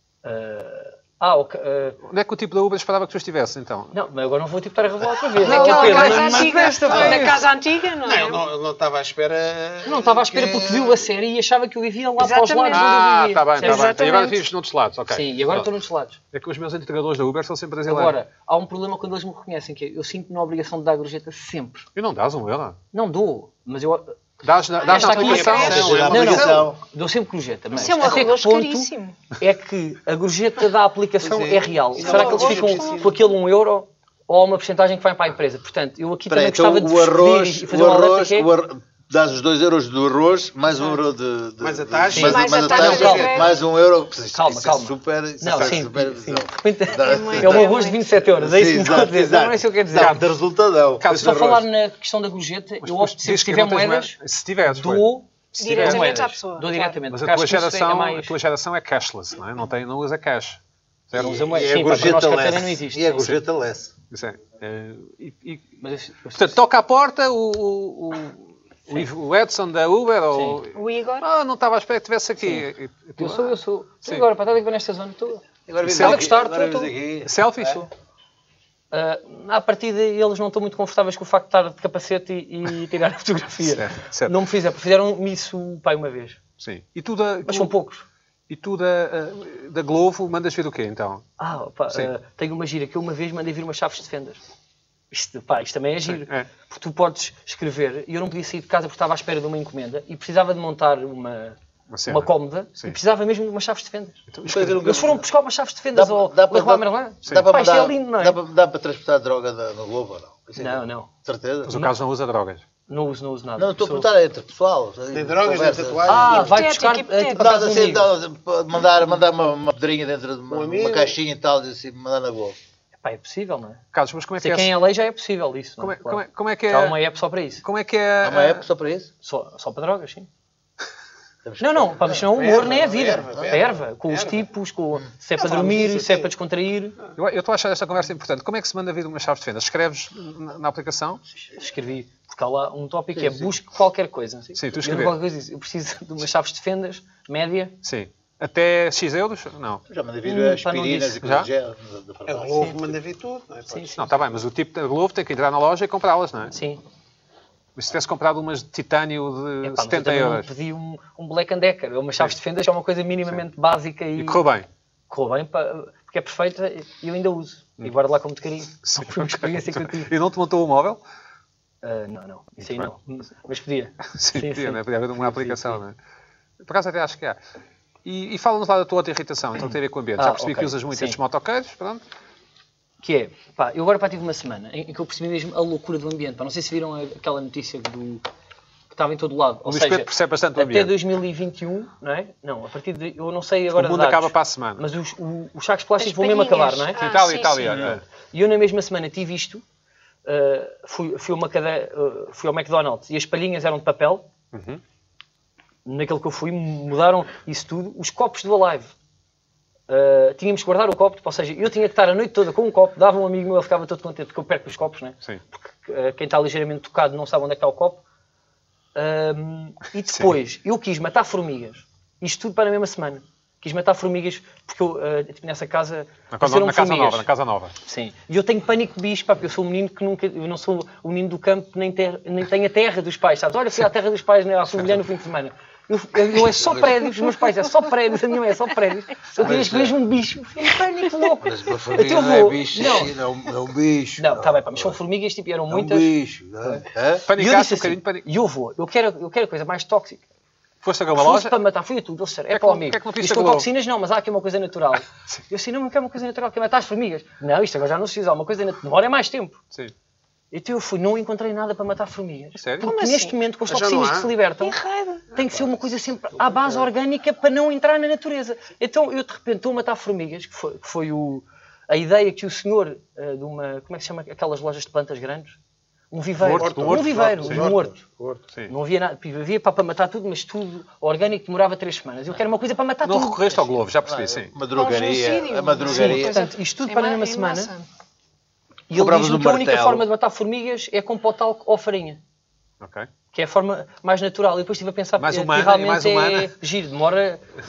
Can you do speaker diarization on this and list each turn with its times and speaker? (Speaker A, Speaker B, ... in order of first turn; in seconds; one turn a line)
Speaker A: 0.2-2.0
Speaker B: 2.0-3.9
Speaker A: 3.9-7.4
Speaker C: 5.4-8.4
Speaker B: 5.4-7.3
Speaker D: 8.0-11.1
Speaker A: 9.8-14.0
Speaker C: 12.2-14.4
Speaker B: 12.7-15.7
Speaker A: 15.1-16.2
Speaker B: 16.3-18.1
Speaker A: 17.9-21.9
Speaker B: 21.9-22.8
Speaker A: 22.9-24.1
Speaker B: 24.4-26.0
Speaker C: 24.8-25.9
Speaker A: 24.8-38.5
Speaker D: 25.1-26.7
Speaker E: 25.6-26.8
Speaker C: 27.7-29.2
Speaker D: 31.2-33.1
Speaker C: 32.0-33.1
Speaker E: 36.3-47.7
Speaker D: 41.6-43.5
Speaker A: 42.1-43.2
Speaker C: 42.2-43.5
Speaker A: 44.3-50.2
Speaker C: 46.9-48.1
Speaker E: 48.2-51.6
Speaker B: 49.9-50.3
Speaker B: 51.0-51.5
Speaker A: 51.1-58.3
Speaker B: 52.8-56.1
Speaker C: 55.6-57.0
Speaker B: 57.1-60.6
Speaker B: 61.1-61.4
Speaker A: 61.1-63.4
Speaker E: 61.1-63.9
Speaker B: 64.1-65.8
Speaker A: 65.8-66.6
Speaker B: 66.3-74.2
Speaker A: 70.3-70.6
Speaker C: 70.7-71.3
Speaker A: 72.4-72.7
Speaker A: 73.2-76.9
Speaker E: 75.7-77.9
Speaker B: 75.8-76.3
Speaker B: 77.2-77.8
Speaker A: 78.9-86.4
Speaker B: 83.6-84.3
Speaker B: 86.6-87.7
Speaker A: 87.5-88.0
Speaker B: 88.5-91.2
Speaker A: 91.4-94.4
Speaker A: 95.1-108.4
Speaker B: 96.0-96.5
Speaker B: 101.9-103.0
Speaker B: 104.3-104.8
Speaker E: 104.5-105.2
Speaker E: 105.9-111.9
Speaker A: 110.6-111.1
Speaker B: 111.6-112.6
Speaker A: 112.9-114.1
Speaker E: 113.6-116.5
Speaker D: 115.1-116.6
Speaker A: 116.1-118.1
Speaker C: 116.3-117.5
Speaker E: 117.3-122.5
Speaker D: 120.5-121.1
Speaker A: 123.0-123.8
Speaker B: 123.9-124.8
Speaker A: 124.4-127.6
Speaker B: 125.8-127.0
Speaker B: 127.6-128.6
Speaker E: 128.2-129.1
Speaker A: 129.2-130.3
Speaker E: 131.4-132.3
Speaker A: 131.6-137.0
Speaker D: 132.2-134.4
Speaker D: 135.4-136.3
Speaker B: 137.2-141.2
Speaker A: 141.5-147.7
Speaker E: 143.1-143.5
Speaker B: 144.6-145.1
Speaker B: 147.8-149.8
Speaker E: 149.9-152.9
Speaker A: 150.2-151.2
Speaker B: 151.2-151.5
Speaker D: 152.3-154.0
Speaker A: 153.7-154.0
Speaker B: 154.0-156.5
Speaker A: 156.5-156.8
Speaker B: 157.8-160.5
Speaker A: 159.6-164.4
Speaker B: 164.2-164.7
Speaker A: 165.1-170.1
Speaker B: 168.8-171.0
Speaker A: 171.8-175.8
Speaker B: 172.6-172.9
Speaker B: 174.1-175.9
Speaker B: 176.6-177.4
Speaker B: 178.0-182.0
Speaker A: 180.2-181.2
Speaker A: 183.0-188.2
Speaker A: 188.9-197.1
Speaker B: 189.7-190.9
Speaker B: 193.7-194.8
Speaker C: 196.0-197.9
Speaker B: 197.0-198.0
Speaker A: 197.7-199.6
Speaker A: 200.2-204.3
Speaker B: 204.5-204.8
Speaker A: 205.8-208.9
Speaker A: 209.9-218.0
Speaker A: 218.9-227.3
Speaker B: 226.3-227.8
Speaker A: 227.8-243.1
Speaker E: 239.4-239.9
Speaker E: 241.4-245.0
Speaker A: 244.2-246.1
Speaker E: 245.7-247.2
Speaker B: 247.3-248.2
Speaker A: 247.3-250.2
Speaker B: 250.8-251.5
Speaker A: 251.2-259.6
Speaker B: 252.5-253.7
Speaker A: 260.5-275.6
Speaker B: 262.6-262.9
Speaker C: 262.8-263.3
Speaker D: 263.7-264.3
Speaker C: 264.6-265.3
Speaker A: 276.1-278.0
Speaker B: 276.4-277.6
Speaker D: 276.4-278.4
Speaker A: 278.7-283.7
Speaker B: 283.0-284.5
Speaker E: 284.0-286.3
Speaker C: 284.7-287.9
Speaker A: 285.8-287.7
Speaker A: 288.9-292.2
Speaker E: 288.9-290.1
Speaker B: 292.8-293.1
Speaker A: 293.3-297.4
Speaker B: 295.2-296.5